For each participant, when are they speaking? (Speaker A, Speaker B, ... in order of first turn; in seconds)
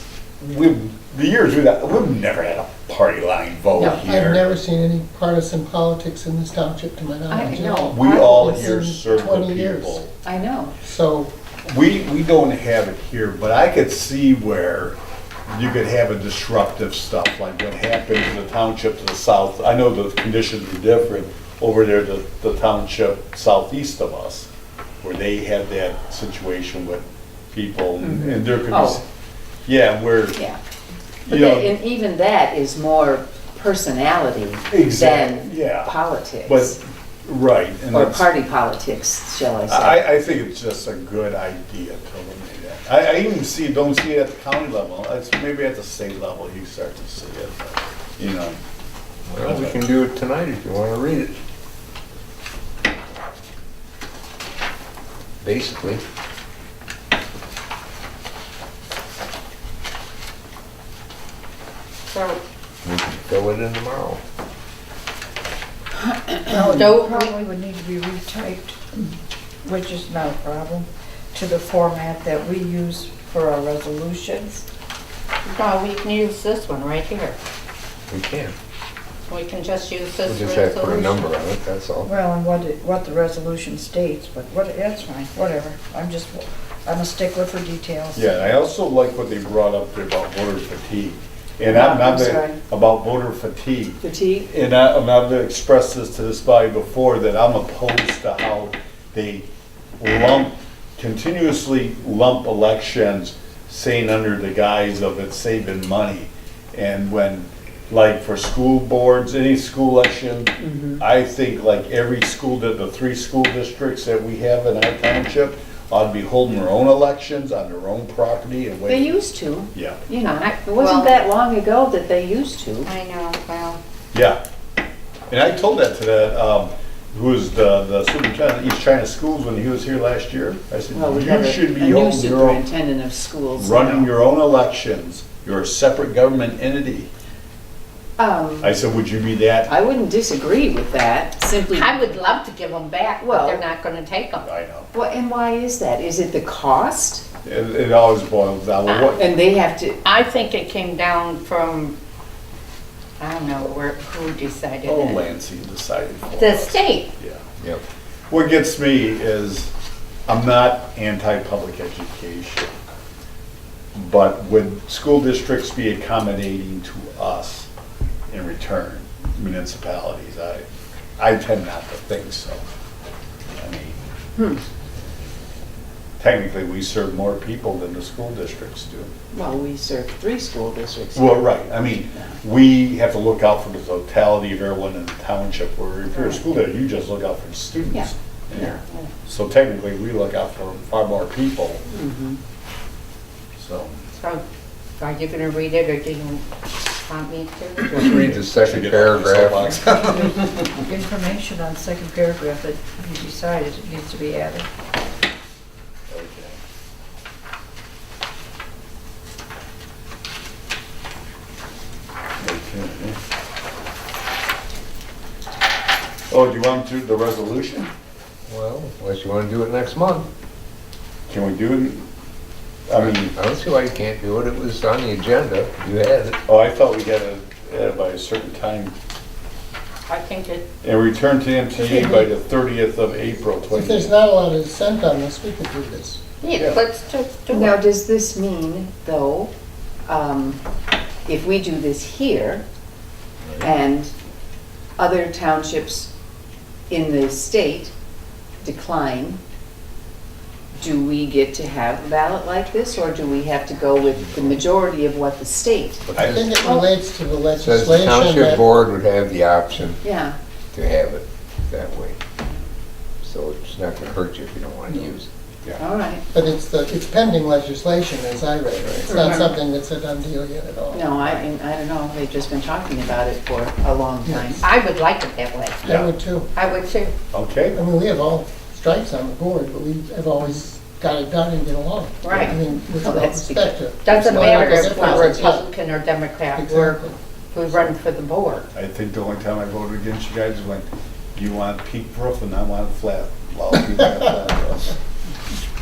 Speaker A: 0.4-4.4, 7.9-10.1, 11.6-15.0, 15.5-24.5, 25.0-29.0, 29.7-30.4, 31.3-31.8, 34.7-35.9, 36.5-38.3, 39.7-48.6, 49.4-49.8, 88.2-99.5, 100.0-119.2, 119.7-120.0, 124.1-124.4, 125.3-132.6, 133.6-137.1, 138.6-139.7, 144.4-144.9, 147.4-149.3, 154.8-157.4, 158.3-159.7, 160.3-162.7, 163.9-167.7, 168.3-170.7, 171.2-172.6, 173.6-174.0, 176.2-179.1, 181.2-191.9, 193.6-194.0, 198.3-200.5, 206.1-206.6, 212.4-213.2, 216.3-217.9, 221.3-222.1, 222.9-223.3, 226.5-228.9, 230.8-234.2, 256.1-256.4, 275.8-276.1, 277.3-277.8, 288.7-295.0
Speaker B: 3.8-10.0, 10.8-11.3, 231.8-232.3, 233.7-236.2, 256.2-258.7, 266.3-271.4, 274.2-274.6, 275.8-276.5, 277.8-285.7, 286.5-287.2
Speaker C: 7.3-8.7, 10.2-10.8, 28.0-29.0, 31.3-36.8, 37.9-40.0, 91.7-92.6, 94.0-94.5, 110.6-111.0, 118.9-122.9, 130.9-134.1, 138.2-138.8, 139.7-142.2, 143.2-143.6, 144.9-147.2, 149.1-150.0, 174.4-174.6, 179.3-182.3, 186.1-186.4, 187.9-188.7, 191.9-192.4, 237.5-239.5, 240.1-240.6, 241.3-242.6, 243.6-244.1, 245.0-246.1, 246.9-247.9, 248.6-249.4, 250.8-256.1, 256.6-256.9, 260.0-260.4, 265.8-266.2, 269.1-269.5, 270.9-274.6, 283.0-285.2
Speaker D: 49.3-51.4, 55.4-56.0, 62.8-64.2, 78.1-78.5, 80.2-82.1, 197.9-199.9, 218.5-220.3, 222.9-226.4, 256.1-256.6, 257.6-260.0, 260.7-262.2, 263.2-265.3
Speaker E: 62.1-62.4, 66.7-67.3, 75.4-77.4, 79.3-81.3, 120.2-121.1, 122.8-123.8, 141.7-144.5, 148.9-149.2, 150.0-152.0, 153.2-155.3, 156.4-157.1, 194.2-194.4, 195.0-198.3, 230.1-230.6, 236.4-237.8, 274.6-275.8, 276.5-277.1, 282.2-282.6, 284.0-287.0, 287.5-288.7
Speaker F: 66.5-69.1, 69.6-74.6, 82.0-88.5, 200.8-204.7